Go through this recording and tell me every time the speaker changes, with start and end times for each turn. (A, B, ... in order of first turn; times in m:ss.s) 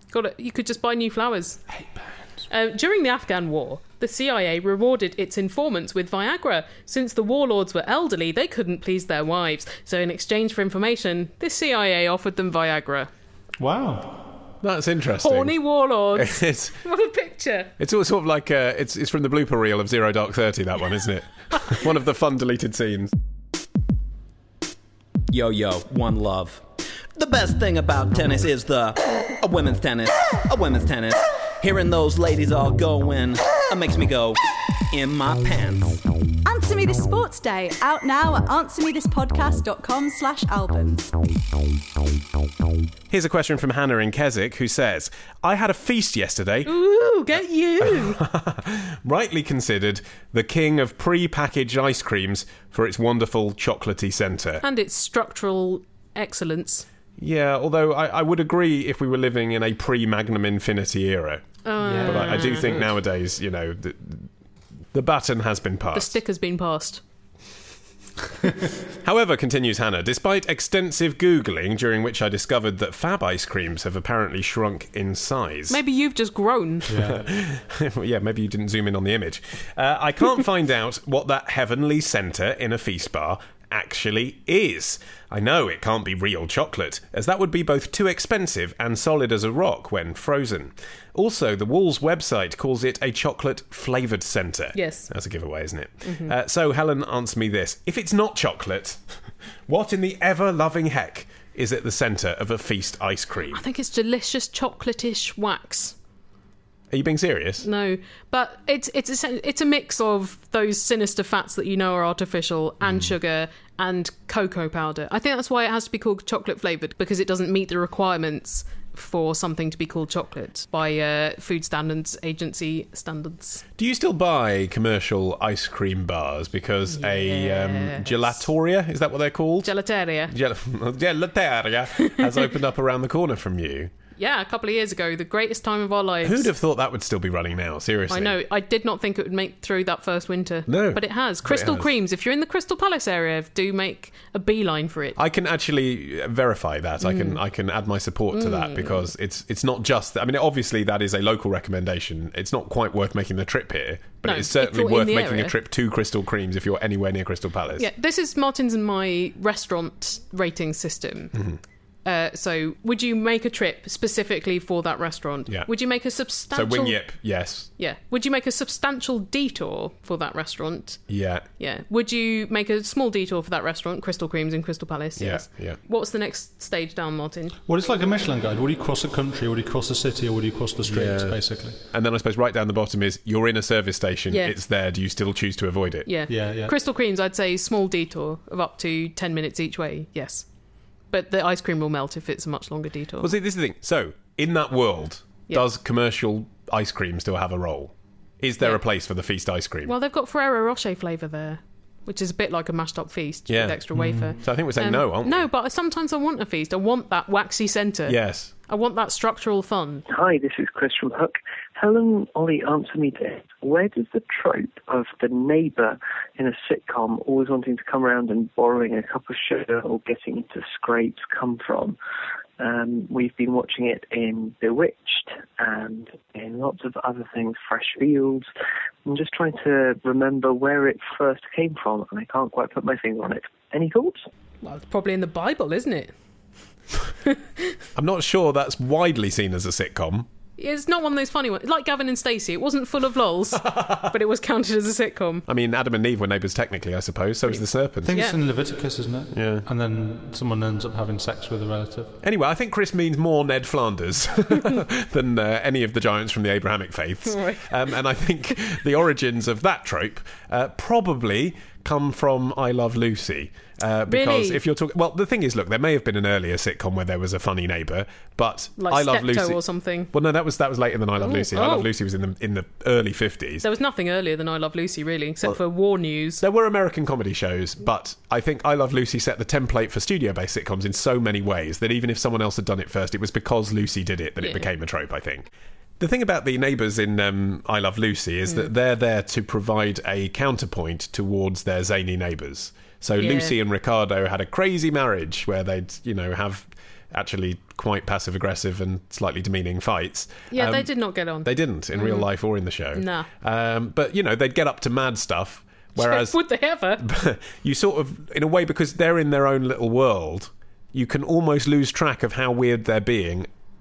0:00.1-0:01.6 A
0:01.8-0:02.1 B
0:02.5-0:13.1 A
0:13.6-0:14.3 B
0:14.6-0:15.6 C
0:15.2-0:17.7 A
0:16.1-0:16.8 C
0:17.8-0:23.1 C
0:25.3-0:26.6 D
0:27.2-0:34.4 D
0:34.9-0:36.0 D
0:36.4-0:41.2 E
0:43.1-0:46.7 C
0:46.6-0:48.2 A
0:47.8-0:54.6 C
0:54.6-0:56.9 A
0:57.2-1:01.4 C
1:01.6-1:02.7 A
1:01.8-1:02.9 B
1:02.0-1:04.3 C
1:04.9-1:06.2 C
1:05.9-1:07.0 A
1:09.0-1:15.8 C
1:15.7-1:17.0 A
1:16.9-1:17.2 B
1:17.0-1:39.0 C
1:34.8-1:35.1 A
1:36.0-1:36.3 A
1:39.7-1:43.6 C
1:43.5-1:46.0 A
1:46.9-1:47.7 C
1:47.6-2:03.6 A
1:52.8-1:53.1 C
2:03.8-2:09.7 C
2:06.9-2:08.4 A
2:09.6-2:10.3 A
2:10.3-2:13.9 C
2:14.2-2:16.5 A
2:16.2-2:18.4 C
2:18.1-2:25.2 A
2:20.7-2:21.9 C
2:25.2-2:37.9 C
2:27.0-2:27.4 A
2:28.3-2:29.1 A
2:34.2-2:35.6 A
2:37.8-2:41.3 A
2:41.3-2:41.6 C
2:42.0-2:47.0 A
2:46.5-2:47.7 C
2:47.8-2:51.0 A
2:51.1-2:51.5 C
2:51.6-2:57.6 A
2:55.2-2:55.8 C
2:57.7-3:01.8 B
3:00.9-3:06.1 C
3:06.1-3:10.5 A
3:06.3-3:06.7 B
3:11.1-3:13.3 A
3:13.2-3:19.9 C
3:19.8-3:30.0 A
3:23.5-3:23.8 C
3:23.9-3:24.4 B
3:24.4-3:25.5 C
3:28.1-3:28.5 C
3:30.1-3:42.0 F
3:42.6-3:48.5 F
3:49.1-3:54.3 F
3:54.6-3:56.1 A
3:57.3-3:57.8 A
3:58.0-4:00.3 C
4:00.6-4:05.4 A
4:03.6-4:04.1 C
4:05.5-4:08.2 C
4:08.0-4:12.1 B
4:09.3-4:09.6 C
4:12.2-4:29.6 C
4:17.2-4:17.7 A
4:24.1-4:24.6 A
4:28.8-4:30.1 A
4:30.1-4:33.7 C
4:31.2-4:31.9 A
4:33.6-4:36.4 A
4:36.4-5:06.4 C
4:44.4-4:44.7 A
4:53.2-4:53.6 A
5:00.5-5:02.3 A
5:02.9-5:03.3 A
5:06.0-5:07.0 A
5:07.0-5:13.5 C